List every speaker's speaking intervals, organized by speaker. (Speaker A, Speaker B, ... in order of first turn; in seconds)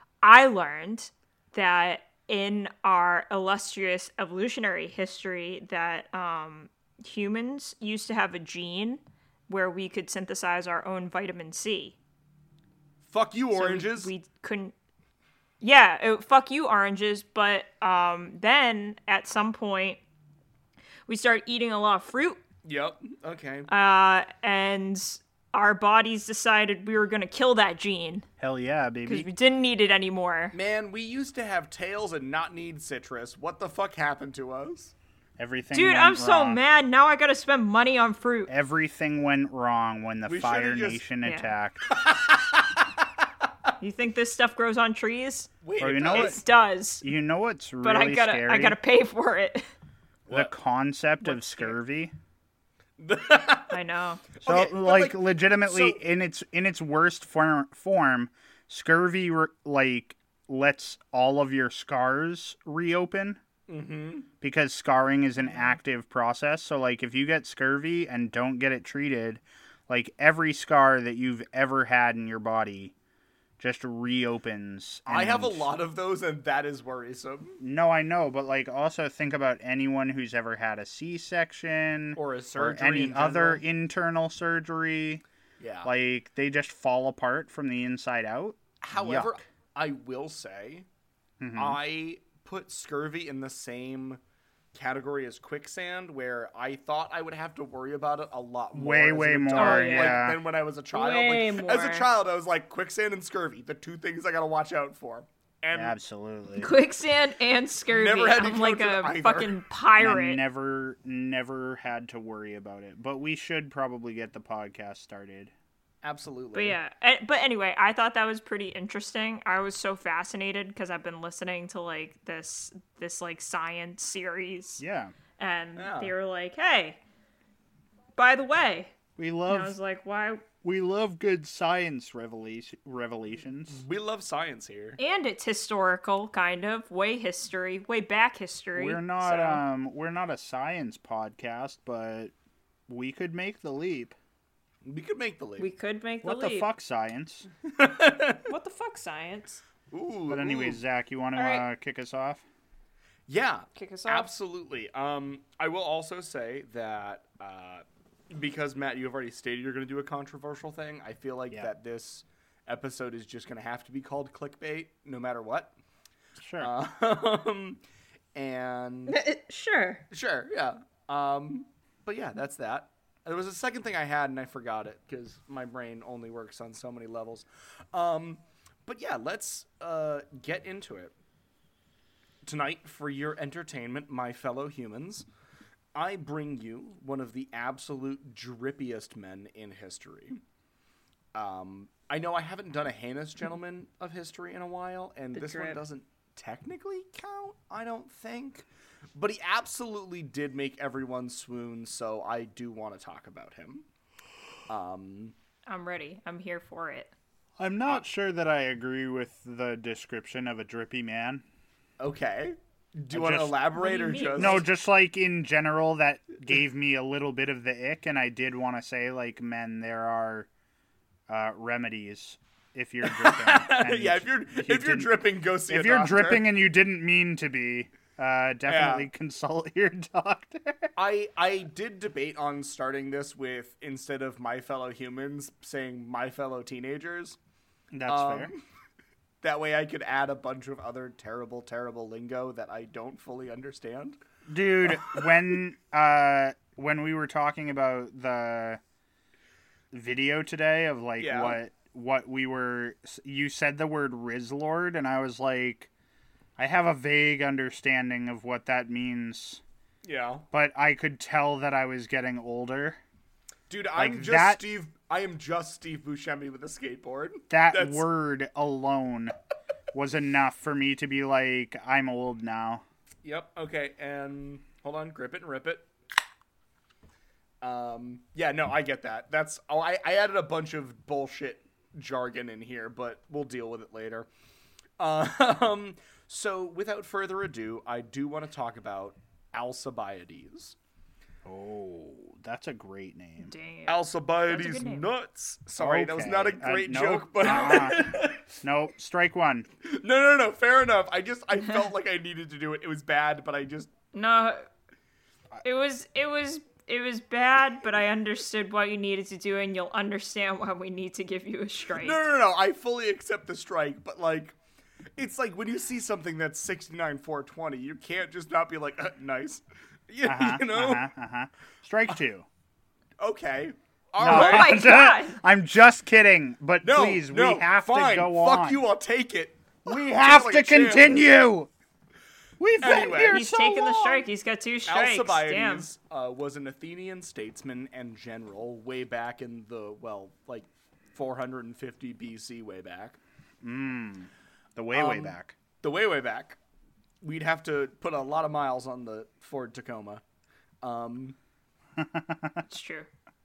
Speaker A: 0.2-11.9, 13.5-14.7, 15.6-20.0, 21.1-22.4, 23.7-28.2, 29.1-30.5, 35.7-38.5, 41.2-41.5, 43.8-45.5, 46.1-47.0, 47.8-49.7, 53.7-54.2, 99.5-100.2, 100.9-102.0, 106.6-110.4, 116.5-124.8, 125.4-127.0, 128.2-128.9, 129.5-130.4, 135.0-139.6, 145.6-146.7, 148.4-149.6, 151.3-151.7, 153.8-154.3, 169.1-170.0, 195.3-195.8, 205.7-207.1, 213.8-214.6, 293.4-295.1, 304.1-304.6, 305.6-312.2, 324.2-325.4, 332.9-335.9, 352.7-353.1
Speaker B: 13.0-14.1, 22.6-23.7, 30.5-34.9, 40.3-41.0, 41.9-42.9, 45.6-46.4, 50.3-50.5, 53.0-53.8, 54.4-56.0, 63.7-64.3, 75.1-77.6, 82.1-83.6, 85.6-85.9, 88.8-90.9, 91.5-94.2, 94.7-106.0, 107.9-109.5, 116.0-116.8, 125.8-126.1, 133.7-135.0, 144.8-145.7, 147.7-148.5, 149.9-150.8, 153.3-165.7, 166.6-167.8, 168.3-169.2, 170.1-181.1, 182.4-185.3, 185.9-190.4, 191.3-203.8, 204.7-205.3, 212.0-214.6, 223.0-226.4, 228.7-229.1, 230.9-237.4, 238.1-238.6, 239.4-244.2, 244.8-245.2, 251.2-251.6, 260.0-260.4, 263.7-268.1, 273.2-275.9, 277.6-284.3, 285.0-290.8, 293.9-298.5, 299.8-303.9, 311.9-314.6, 315.2-321.1, 323.2-324.9, 326.8-331.2, 332.8-333.4, 334.9-343.2, 344.9-346.6, 347.2-350.2, 350.8-351.4
Speaker C: 28.4-29.3, 35.4-36.6, 38.5-42.0, 45.8-46.4, 47.0-48.8, 50.3-52.1, 54.5-63.4, 64.4-72.9, 73.6-75.7, 77.6-85.2, 85.8-89.4, 91.4-91.8, 98.7-100.4, 105.7-106.7, 110.0-115.5, 124.8-125.1, 129.2-129.7, 130.6-133.8, 138.7-142.3, 142.9-144.2, 146.2-147.5, 150.3-152.4, 166.4-166.7, 207.6-211.4, 213.1-213.6, 214.3-220.5, 221.3-225.1, 225.7-230.9, 237.9-238.5, 244.5-248.8, 249.9-255.9, 256.6-259.6, 260.5-263.0, 264.0-264.6, 267.5-269.3, 269.9-272.8, 291.4-293.5, 295.8-299.7, 320.2-322.4, 324.2-328.8, 329.9-331.7, 332.6-334.2, 343.6-345.5, 352.0-352.6